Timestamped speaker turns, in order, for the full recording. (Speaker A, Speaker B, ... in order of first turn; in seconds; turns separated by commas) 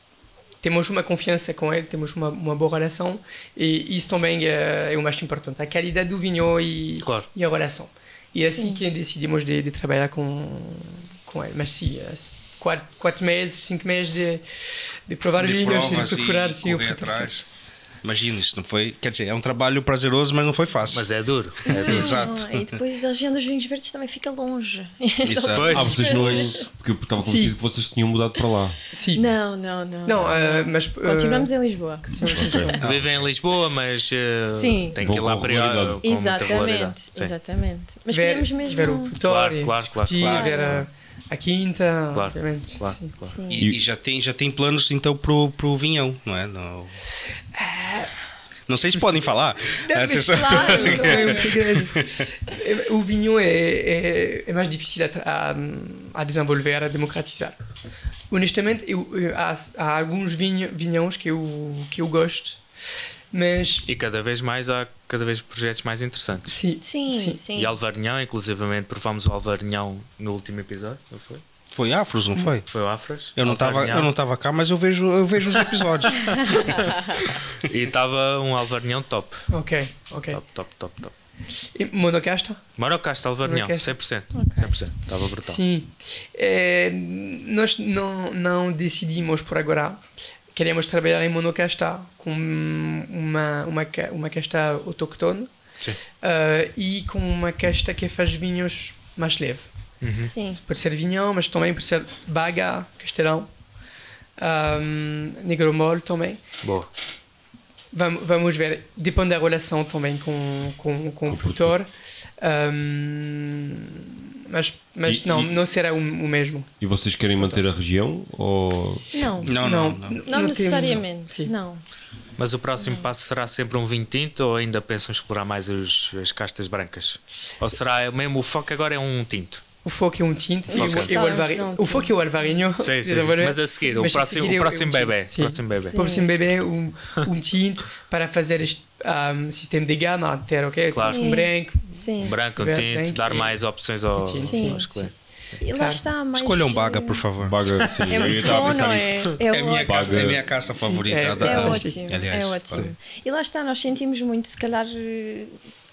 Speaker A: 0.6-14.4, Speaker B: 7.0-7.3, Speaker C: 8.5-8.8, Speaker A: 15.1-17.3, Speaker D: 15.4-17.4, Speaker D: 18.0-21.1, Speaker B: 20.9-22.2, Speaker D: 21.6-22.8, Speaker C: 21.7-26.7, Speaker D: 25.2-26.5, Speaker B: 25.5-26.2, Speaker E: 25.6-28.8, Speaker A: 27.2-27.5, Speaker A: 28.9-29.2, Speaker C: 29.1-32.8, Speaker A: 30.0-31.5, Speaker A: 32.1-32.8, Speaker E: 32.2-32.8, Speaker D: 32.8-33.2, Speaker B: 32.8-37.3, Speaker C: 34.5-35.0, Speaker E: 35.0-36.0, Speaker C: 36.0-39.2, Speaker A: 38.1-43.1, Speaker B: 39.2-40.8, Speaker D: 40.2-40.6, Speaker C: 40.2-40.8, Speaker B: 42.1-43.3, Speaker C: 43.3-43.7, Speaker D: 43.5-46.9, Speaker A: 47.5-48.1, Speaker D: 48.7-52.3, Speaker A: 49.9-57.6, Speaker C: 50.3-51.5, Speaker A: 58.3-62.6, Speaker A: 63.3-63.8, Speaker B: 63.8-66.6, Speaker A: 66.5-67.4, Speaker C: 66.8-67.8, Speaker B: 67.5-71.4, Speaker D: 71.7-72.7, Speaker B: 72.7-74.1, Speaker D: 73.3-76.8, Speaker B: 76.3-79.5, Speaker A: 79.5-80.4, Speaker B: 80.3-81.1, Speaker A: 81.7-82.6, Speaker B: 82.8-85.6, Speaker A: 83.4-84.0, Speaker C: 84.3-84.7, Speaker A: 85.4-90.0, Speaker A: 90.5-95.5, Speaker A: 96.2-99.7, Speaker B: 100.0-100.3, Speaker C: 100.2-100.6, Speaker A: 100.6-103.5, Speaker A: 104.4-106.4, Speaker B: 106.6-106.9, Speaker A: 107.9-116.7, Speaker E: 111.2-111.7, Speaker E: 115.0-115.6, Speaker E: 116.8-119.1, Speaker C: 119.1-121.8, Speaker D: 119.4-120.2, Speaker A: 119.5-121.5, Speaker B: 122.4-129.6, Speaker A: 129.8-142.0, Speaker C: 130.7-132.6, Speaker B: 130.7-131.4, Speaker B: 132.8-136.0, Speaker C: 135.9-136.3, Speaker B: 140.9-141.3, Speaker C: 141.0-142.3, Speaker B: 142.2-145.1, Speaker A: 142.5-143.6, Speaker A: 144.1-145.1, Speaker C: 144.4-144.9, Speaker C: 145.6-147.2, Speaker A: 145.7-146.0, Speaker D: 146.3-147.6, Speaker E: 147.4-150.5, Speaker C: 148.1-150.3, Speaker D: 149.4-152.9, Speaker A: 150.9-152.0, Speaker E: 151.2-151.8, Speaker C: 151.4-155.5